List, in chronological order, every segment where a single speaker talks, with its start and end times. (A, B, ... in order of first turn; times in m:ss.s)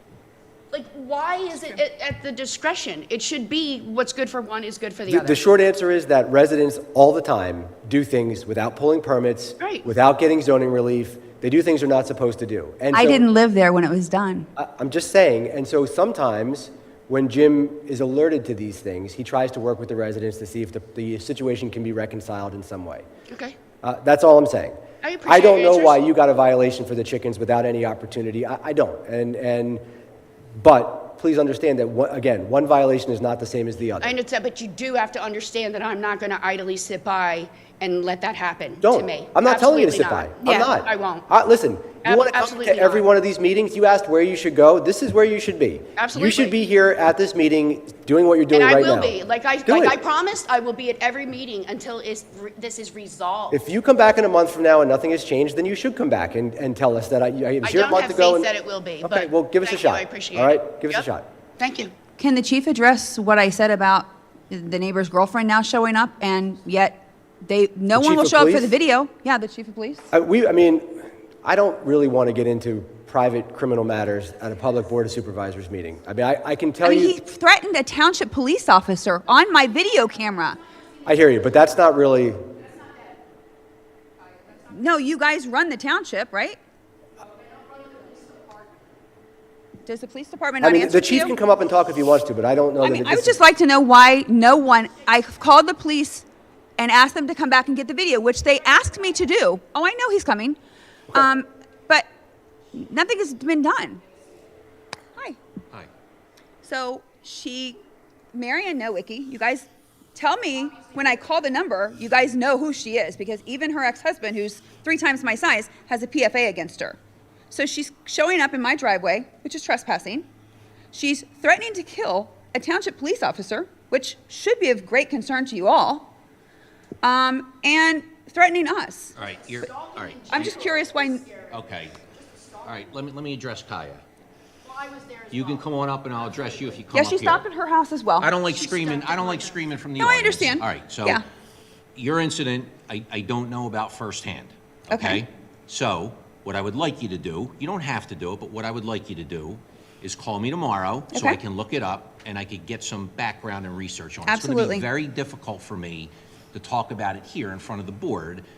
0:00.7-0:05.4 A
0:05.1-0:13.2 B
0:09.6-0:09.8 A
0:12.9-0:14.5 C
0:14.6-0:23.0 B
0:23.3-0:23.6 A
0:23.8-0:29.8 B
0:25.0-0:26.0 A
0:30.6-0:34.2 B
0:34.0-0:41.2 A
0:38.8-0:50.0 B
0:42.0-0:43.0 A
0:46.0-0:46.5 A
0:48.5-0:53.6 A
0:53.5-0:58.5 B
0:57.6-1:01.0 A
0:59.0-1:01.3 B
1:01.6-1:01.9 A
1:02.2-1:10.0 C
1:07.9-1:08.7 B
1:10.1-1:17.2 B
1:16.8-1:20.6 C
1:21.0-1:22.4 B
1:24.7-1:26.6 C
1:29.8-1:31.3 C
1:30.6-1:33.4 B
1:32.8-1:36.2 C
1:36.8-1:40.6 C
1:41.1-1:42.1 C
1:42.7-1:44.0 C
1:46.6-1:47.8 C
1:48.3-1:57.0 C
1:57.5-2:00.2 C
2:00.9-2:06.1 C
2:07.0-2:09.1 C
2:09.2-2:10.7 D
2:09.5-2:12.9 A
2:10.3-2:11.3 C
2:11.5-2:12.0 D
2:12.6-2:14.0 D
2:14.6-2:15.7 A
2:15.3-2:17.4 D
2:16.3-2:16.8 A
2:16.9-2:18.3 C
2:18.2-2:21.2 D
2:18.4-2:19.6 A
2:20.0-2:21.2 C
2:22.0-2:38.4 D
2:24.9-2:25.2 C
2:31.1-2:31.4 C
2:34.2-2:34.9 C